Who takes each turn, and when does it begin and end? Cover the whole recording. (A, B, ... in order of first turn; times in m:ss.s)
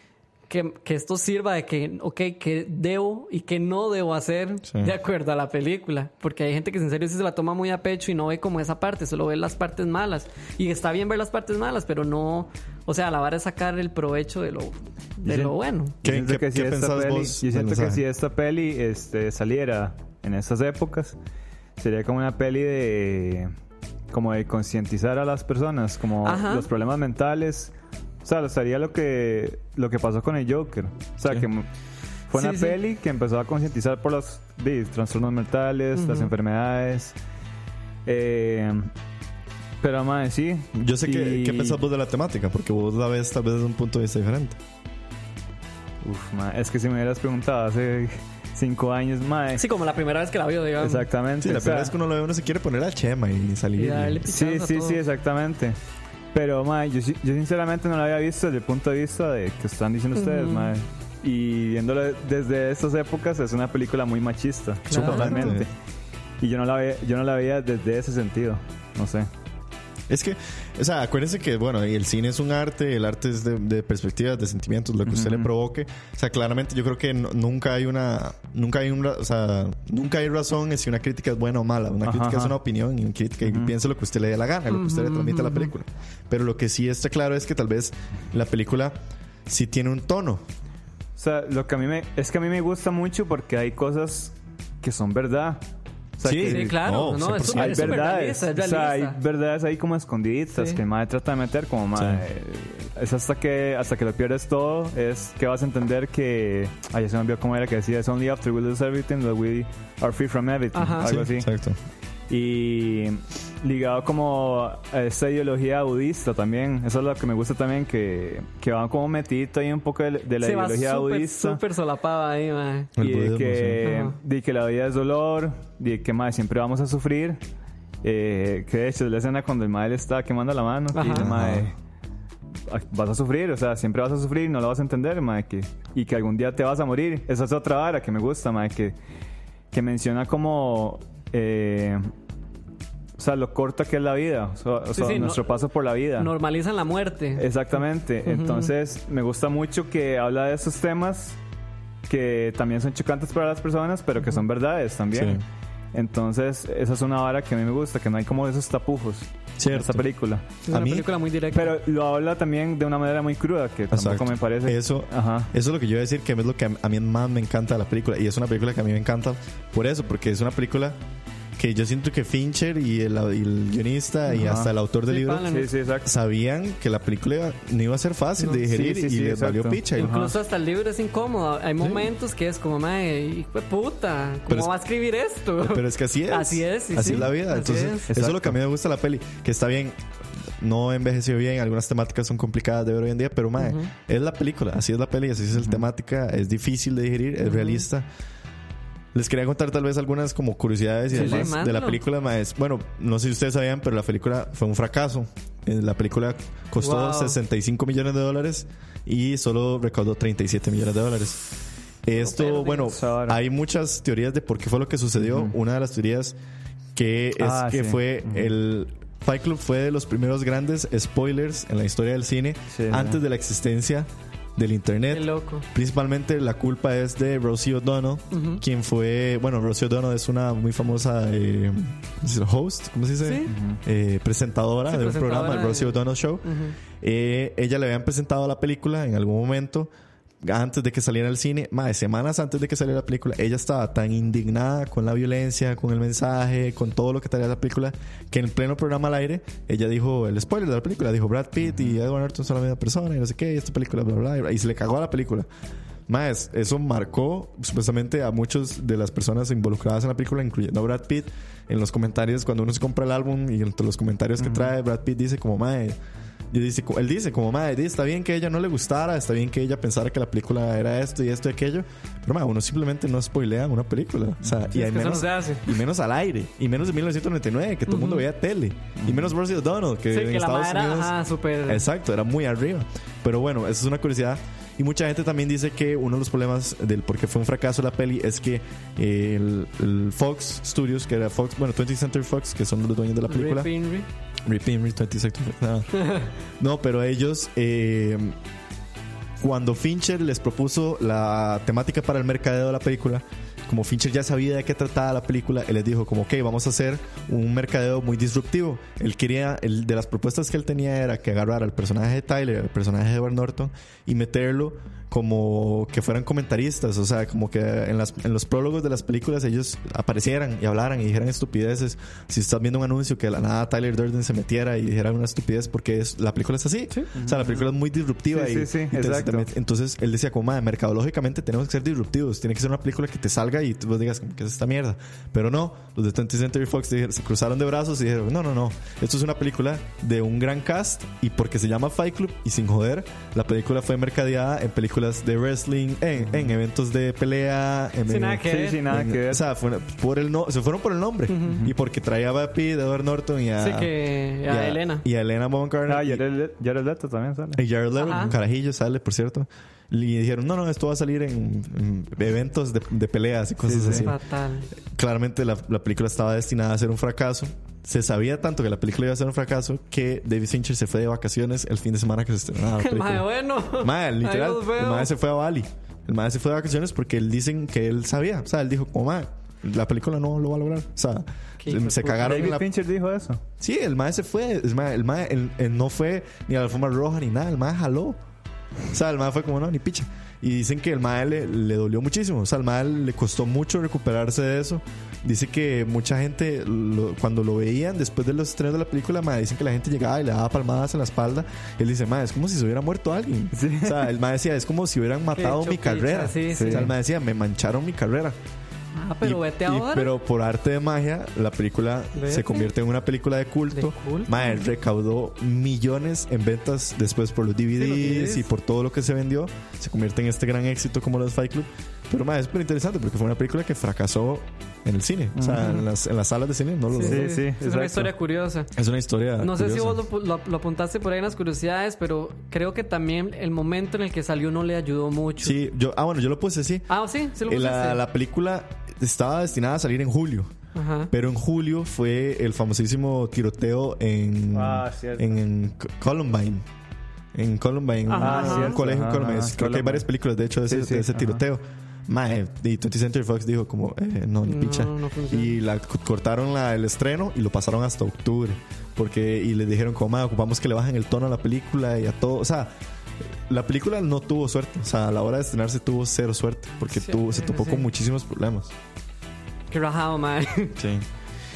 0:00.5-0:16.0 A
0:15.2-0:21.2 B
0:16.0-0:18.0 C
0:21.8-0:23.5 B
0:24.1-0:31.7 B
0:26.2-0:26.7 A
0:32.3-0:37.2 B
0:32.3-0:32.8 A
0:35.9-0:36.3 A
0:38.0-0:38.9 B
0:39.8-0:41.8 B
0:40.7-0:44.6 C
0:46.0-0:49.6 B
0:49.5-0:51.1 A
0:50.8-0:51.9 B
0:51.4-0:54.2 C
0:53.8-0:55.0 A
0:54.2-0:55.8 B
0:56.3-1:05.7 B
1:00.1-1:00.7 A
1:04.9-1:05.6 A
1:04.9-1:05.7 C
1:06.4-1:09.3 B
1:10.1-1:29.0 C
1:15.0-1:15.5 B
1:22.0-1:22.6 B
1:23.4-1:23.7 B
1:24.7-1:25.7 A
1:29.5-1:30.4 C
1:31.2-1:35.6 B
1:36.2-1:36.8 B
1:36.2-1:38.1 C
1:36.4-1:39.2 A
1:37.4-1:51.5 B
1:40.5-1:40.8 A
1:42.0-1:42.2 C
1:50.7-1:51.1 A
1:51.0-1:51.8 C
1:52.3-2:01.6 B
2:00.4-2:02.9 A
2:03.0-2:03.8 C
2:03.0-2:07.4 B
2:03.8-2:04.2 A
2:08.0-2:11.7 B
2:10.9-2:11.3 A
2:11.1-2:11.7 C
2:12.7-2:19.0 B
2:19.7-2:22.0 B
2:23.2-2:26.3 B
2:24.9-2:25.5 A
2:26.2-2:27.5 A
2:27.3-2:31.4 B
2:28.2-2:28.7 A
2:32.1-2:35.4 B
2:35.1-2:35.4 C
2:35.9-2:40.4 B
2:39.6-2:40.1 C
2:40.6-2:41.8 A
2:40.7-2:41.1 C
2:41.5-2:45.5 B
2:43.9-2:51.0 C
2:51.6-2:55.5 C
2:54.3-2:54.7 B
2:55.1-2:55.7 A
2:55.4-2:56.1 B
2:56.0-3:00.2 C
2:58.6-3:00.4 B
2:59.9-3:08.1 A
3:05.6-3:10.0 C
3:08.1-3:08.6 B
3:10.6-3:18.0 C
3:13.6-3:13.9 A
3:15.5-3:15.8 B
3:17.4-3:17.8 A
3:19.1-3:31.4 C
3:21.1-3:22.0 A
3:21.1-3:21.5 B
3:26.8-3:27.4 A
3:32.0-3:36.4 C
3:32.1-3:33.0 A
3:32.8-3:33.4 B
3:35.2-3:35.5 B
3:36.9-3:59.9 C
3:37.4-3:38.5 B
3:42.7-3:43.2 B
3:45.1-3:45.6 A
3:48.3-3:48.6 A
3:53.2-3:53.5 A
3:53.5-3:53.8 B
3:54.9-3:56.8 A
4:00.4-4:15.5 C
4:11.6-4:11.9 B
4:16.1-4:26.0 C
4:24.4-4:24.7 B
4:26.5-4:41.1 C
4:34.7-4:35.7 A
4:37.9-4:38.2 A
4:39.0-4:39.3 B
4:40.1-4:41.8 A
4:41.6-4:53.7 C
4:53.3-4:54.1 A
4:54.4-4:56.0 C
4:55.9-4:56.3 A
4:56.6-4:58.4 C
4:59.4-5:56.2 C
5:27.2-5:27.7 B
5:28.3-5:29.5 B
5:48.1-5:48.8 A
5:48.4-5:49.4 B
5:51.3-5:51.6 A
5:53.6-5:55.0 A
5:55.9-5:57.6 B
5:57.6-6:04.1 C
5:57.9-5:58.3 A
6:03.6-6:04.1 B
6:03.8-6:04.7 A
6:04.9-6:22.6 C
6:12.8-6:15.1 A
6:21.6-6:22.6 A
6:22.2-6:23.4 B
6:23.6-6:28.2 C
6:28.9-6:48.4 C
6:43.5-6:44.1 B
6:45.3-6:46.9 A
6:46.5-6:46.9 B
6:48.9-6:50.1 A
6:49.2-7:07.3 C
6:52.1-6:52.7 A
6:53.7-6:54.6 A
6:57.8-6:58.5 A
7:05.4-7:05.8 B
7:06.9-7:08.7 A
7:07.0-7:08.1 B
7:08.7-7:10.0 C
7:09.4-7:15.6 A
7:15.4-7:16.9 C
7:16.9-7:18.0 A
7:17.4-7:20.5 C
7:20.7-7:21.1 A
7:21.1-7:26.6 C
7:24.5-7:25.4 B
7:27.3-7:42.7 C
7:28.1-7:28.8 A
7:28.2-7:30.1 B
7:30.6-7:31.4 B
7:34.4-7:35.6 A
7:43.5-7:48.7 C
7:46.9-7:47.9 A
7:49.7-7:50.8 A
7:50.8-7:51.0 C